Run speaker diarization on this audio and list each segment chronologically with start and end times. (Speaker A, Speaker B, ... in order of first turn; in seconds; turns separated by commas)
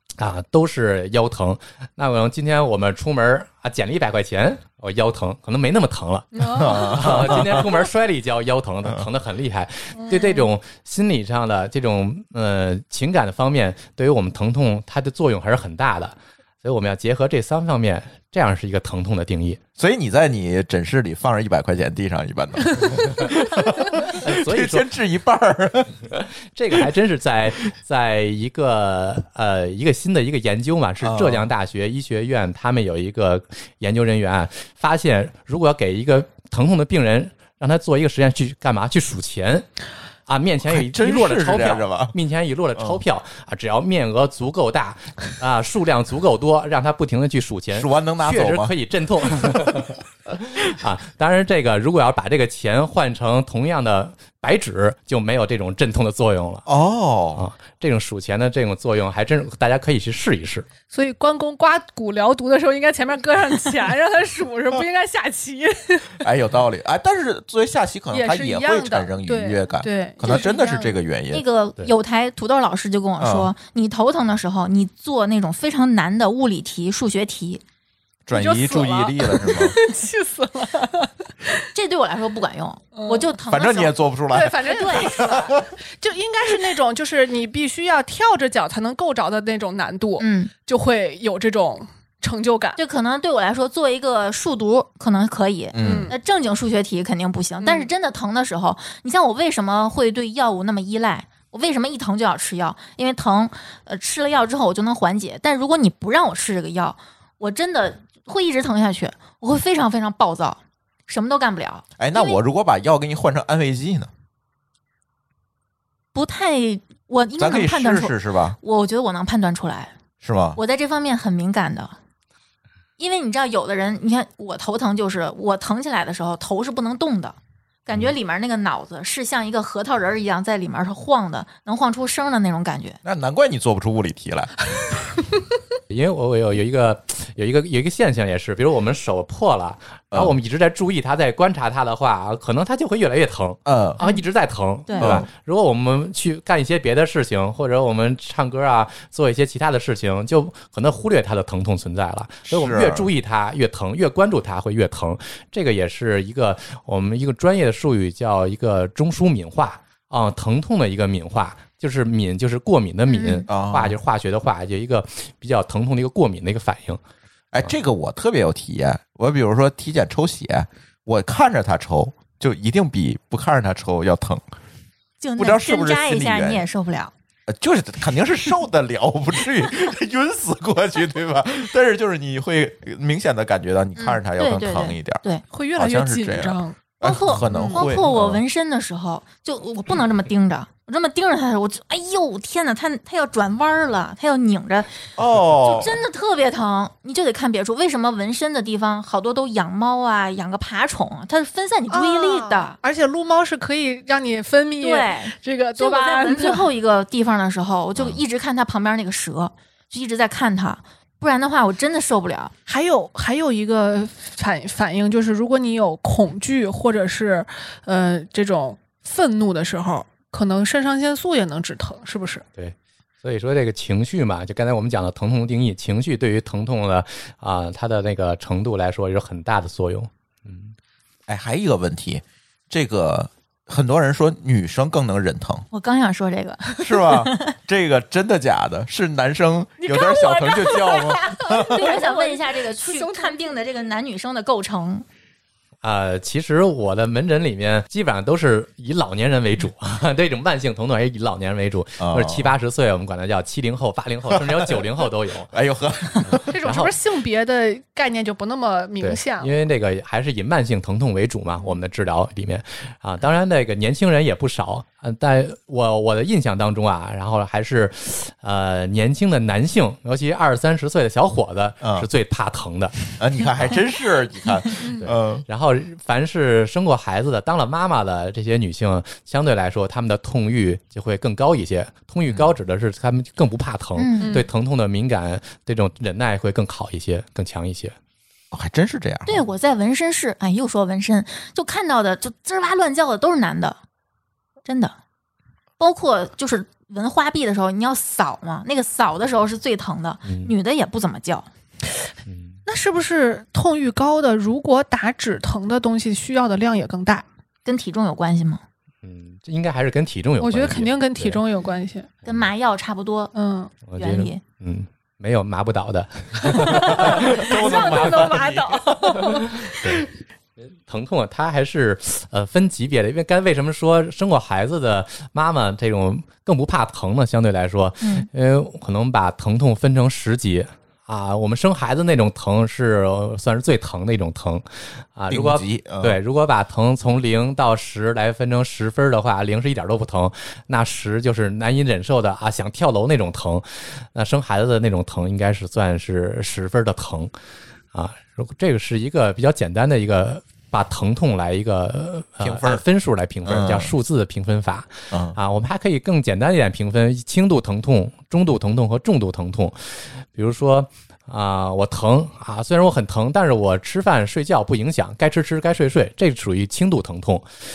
Speaker A: 0.2-19.6, Speaker B: 6.3-7.2, Speaker C: 6.6-7.7, Speaker B: 10.0-10.5, Speaker C: 19.8-26.0, Speaker A: 24.0-24.9, Speaker A: 26.1-39.7, Speaker C: 31.0-31.5, Speaker A: 40.3-56.7, Speaker C: 40.7-42.1, Speaker C: 47.7-48.7, Speaker C: 56.7-57.5, Speaker A: 57.4-60.7, Speaker B: 60.9-66.2, Speaker C: 66.2-71.4, Speaker B: 68.1-71.0, Speaker D: 71.3-77.6, Speaker C: 73.2-73.5, Speaker C: 78.3-79.8, Speaker B: 78.3-81.6, Speaker D: 81.7-83.9, Speaker B: 83.0-83.3, Speaker C: 83.5-85.7, Speaker B: 84.3-92.8, Speaker D: 84.6-85.5, Speaker D: 90.2-90.5, Speaker D: 92.8-112.4, Speaker C: 95.7-96.1, Speaker B: 95.8-96.2, Speaker B: 97.6-97.9, Speaker C: 112.0-114.1, Speaker D: 116.2-119.9, Speaker C: 117.4-118.6, Speaker C: 120.2-120.6, Speaker D: 120.6-122.0, Speaker D: 123.0-133.0, Speaker C: 133.0-134.5, Speaker A: 135.9-167.0, Speaker C: 143.7-144.0, Speaker D: 144.9-145.2, Speaker C: 145.0-145.3, Speaker C: 152.5-153.1, Speaker D: 163.1-163.5, Speaker C: 163.5-164.0, Speaker C: 167.5-174.4, Speaker D: 175.2-177.1, Speaker C: 175.4-176.7, Speaker C: 177.5-185.2, Speaker D: 184.0-185.4, Speaker B: 185.5-186.8, Speaker C: 185.8-188.4, Speaker D: 187.0-195.0, Speaker B: 187.5-187.9, Speaker C: 195.2-196.0, Speaker D: 195.6-202.8, Speaker B: 201.9-206.7, Speaker D: 204.8-212.5, Speaker B: 212.7-222.4, Speaker A: 222.6-230.7, Speaker C: 231.3-235.7, Speaker D: 235.7-237.5, Speaker C: 236.8-241.9, Speaker B: 239.8-243.5, Speaker D: 240.9-245.1, Speaker A: 245.8-255.5, Speaker C: 252.0-252.5, Speaker C: 254.4-254.7, Speaker C: 255.5-256.5, Speaker A: 256.2-256.9, Speaker B: 256.5-259.6, Speaker A: 259.0-273.0, Speaker C: 271.8-272.1, Speaker C: 273.2-275.4, Speaker A: 275.0-288.0, Speaker D: 284.0-284.4, Speaker B: 284.2-284.5, Speaker C: 288.5-289.4, Speaker D: 289.3-293.8, Speaker D: 294.6-295.0, Speaker D: 295.8-301.5, Speaker A: 300.3-300.5, Speaker A: 302.3-302.6, Speaker B: 302.7-307.2, Speaker D: 307.6-308.6, Speaker A: 309.0-311.4, Speaker B: 310.4-312.1, Speaker D: 312.2-313.3, Speaker B: 313.3-313.7, Speaker A: 313.9-318.0, Speaker D: 314.0-314.4, Speaker B: 316.5-319.7, Speaker C: 316.9-319.0, Speaker A: 319.6-320.1, Speaker A: 320.6-347.3, Speaker D: 328.0-328.3, Speaker C: 335.3-336.2, Speaker A: 347.9-367.5, Speaker C: 352.4-352.8, Speaker C: 353.4-353.9, Speaker C: 355.1-355.4